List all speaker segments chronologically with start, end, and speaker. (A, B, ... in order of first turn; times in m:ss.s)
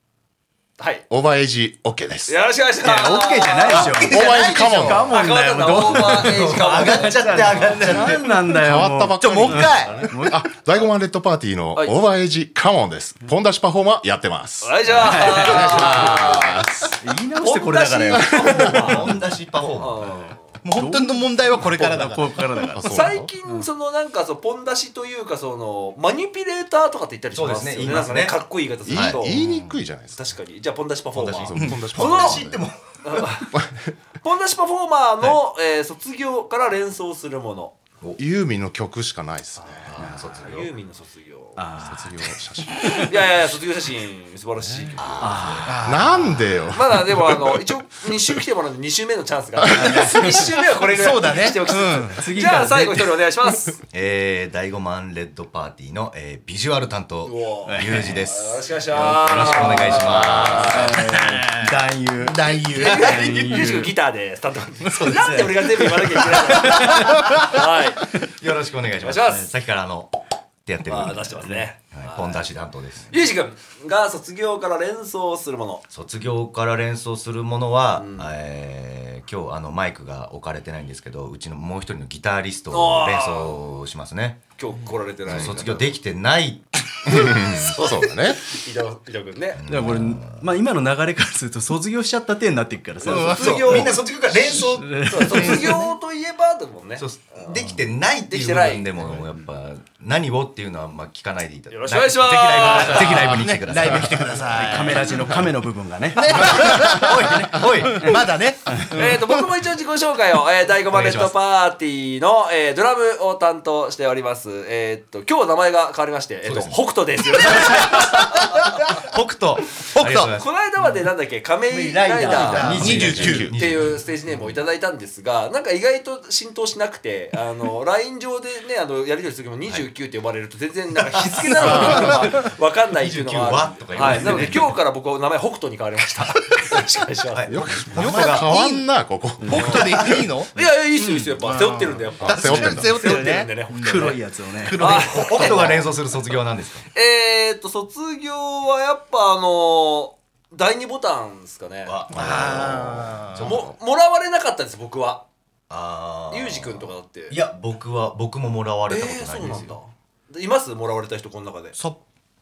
0:00.8-0:01.0 A
0:01.1-0:02.3 B
0:02.3-0:07.7 A
0:02.8-0:10.5 C
0:03.8-0:06.0 D
0:03.9-0:05.2 B
0:06.0-0:08.2 E
0:07.8-0:08.2 D
0:08.4-0:17.0 B
0:09.2-0:10.1 D
0:11.7-0:12.0 A
0:14.6-0:19.1 A
0:15.0-0:15.9 C
0:17.0-0:18.8 C
0:18.1-0:18.7 B
0:18.6-0:20.2 E
0:19.7-0:20.5 A
0:20.6-0:22.7 D
0:20.7-0:23.2 C
0:22.8-0:23.3 B
0:22.8-0:29.4 A
0:27.3-0:29.3 E
0:28.8-0:30.2 B
0:30.1-0:33.6 A
0:31.1-0:32.8 E
0:31.4-0:32.6 B
0:33.5-0:33.9 B
0:34.2-0:37.8 A
0:38.2-0:39.9 B
0:39.6-0:41.8 A
0:39.8-0:40.7 E
0:40.0-0:40.3 C
0:41.6-0:43.0 C
0:41.8-0:43.2 B
0:42.9-0:45.4 A
0:44.6-0:45.2 B
0:45.0-0:45.8 E
0:45.2-0:46.3 C
0:45.7-0:46.2 D
0:45.8-0:47.6 B
0:46.7-0:53.8 A
0:49.8-0:50.1 B
0:49.8-0:50.1 D
0:49.9-0:50.1 C
0:50.9-0:52.2 D
0:52.1-0:53.1 C
0:53.9-1:01.0 E
0:57.2-1:01.0 A
0:57.7-0:58.2 C
0:58.9-1:03.9 C
1:01.0-1:03.4 D
1:02.7-1:08.1 A
1:04.9-1:07.3 C
1:06.9-1:07.4 D
1:08.2-1:10.1 E
1:09.0-1:09.5 A
1:10.6-1:13.2 E
1:10.9-1:12.5 A
1:13.1-1:15.8 A
1:15.9-1:24.4 E
1:17.9-1:18.3 A
1:22.7-1:23.6 A
1:24.6-1:25.9 A
1:25.2-1:27.2 E
1:25.3-1:25.6 B
1:27.0-1:28.4 B
1:27.1-1:29.6 A
1:29.6-1:30.4 E
1:29.7-1:33.9 C
1:33.0-1:33.9 D
1:33.2-1:33.9 A
1:33.2-1:35.1 E
1:34.5-1:35.8 C
1:35.0-1:37.7 A
1:35.5-1:35.8 D
1:37.0-1:44.6 E
1:38.3-1:38.9 A
1:41.7-1:43.4 A
1:42.8-1:43.4 C
1:43.3-1:45.2 D
1:44.5-1:48.2 C
1:46.1-1:49.2 D
1:46.4-1:48.1 E
1:48.7-1:49.0 C
1:48.9-1:58.6 A
1:50.9-1:51.3 E
1:56.4-1:56.8 E
1:57.4-2:00.5 E
1:57.6-1:59.0 D
1:59.9-2:00.3 D
2:00.3-2:17.8 A
2:01.7-2:03.5 D
2:02.0-2:03.4 C
2:02.5-2:04.0 E
2:02.8-2:03.6 B
2:11.5-2:12.4 D
2:11.6-2:12.4 E
2:13.0-2:14.8 E
2:14.0-2:14.5 C
2:17.3-2:18.5 E
2:17.5-2:20.1 B
2:17.9-2:18.9 D
2:19.4-2:19.7 C
2:19.4-2:24.1 D
2:19.5-2:19.9 A
2:20.5-2:25.9 A
2:22.2-2:23.2 B
2:23.7-2:25.1 C
2:24.6-2:25.7 D
2:24.9-2:26.8 E
2:26.9-2:32.0 A
2:31.8-2:33.7 E
2:32.1-2:33.5 D
2:32.2-2:32.6 B
2:33.4-2:35.2 A
2:35.7-2:39.8 E
2:36.3-2:37.4 A
2:38.9-2:41.8 A